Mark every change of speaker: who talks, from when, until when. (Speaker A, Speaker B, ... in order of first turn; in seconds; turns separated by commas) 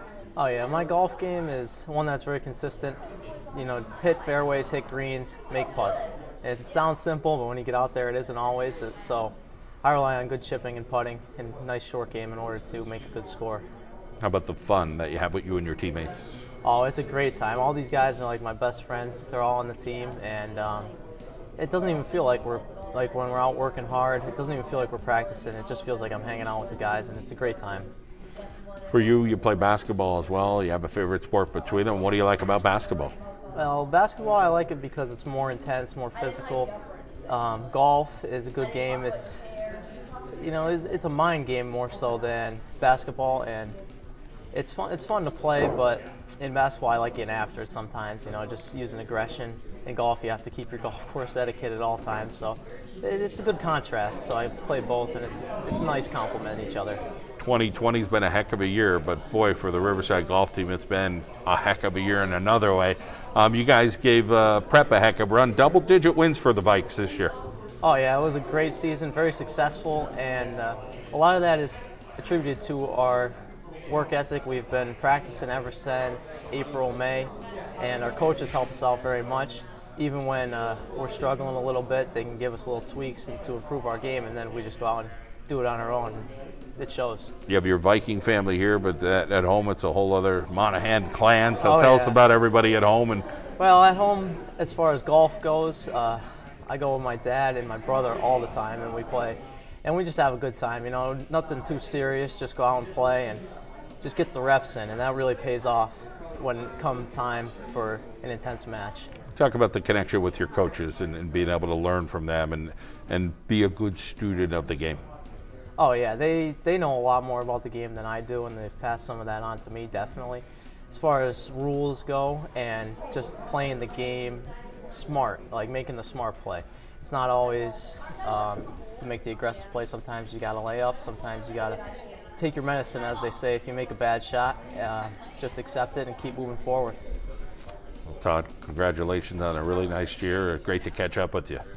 Speaker A: 0.3-3.0, Speaker A: 3.5-9.3, Speaker A: 9.8-13.6, Speaker B: 14.2-16.3, Speaker A: 16.6-20.9, Speaker A: 21.6-27.9, Speaker B: 28.9-33.1, Speaker A: 33.5-36.7, Speaker A: 37.3-39.5, Speaker A: 40.4-43.8, Speaker A: 44.5-57.0, Speaker B: 57.4-67.3, Speaker A: 67.8-73.3, Speaker A: 73.9-87.3, Speaker B: 87.5-93.2, Speaker A: 91.6-92.2, Speaker A: 93.6-103.4, Speaker A: 104.0-109.1, Speaker B: 109.3-115.0, Speaker A: 115.8-131.8, Speaker A: 132.4-137.0, Speaker B: 138.1-141.6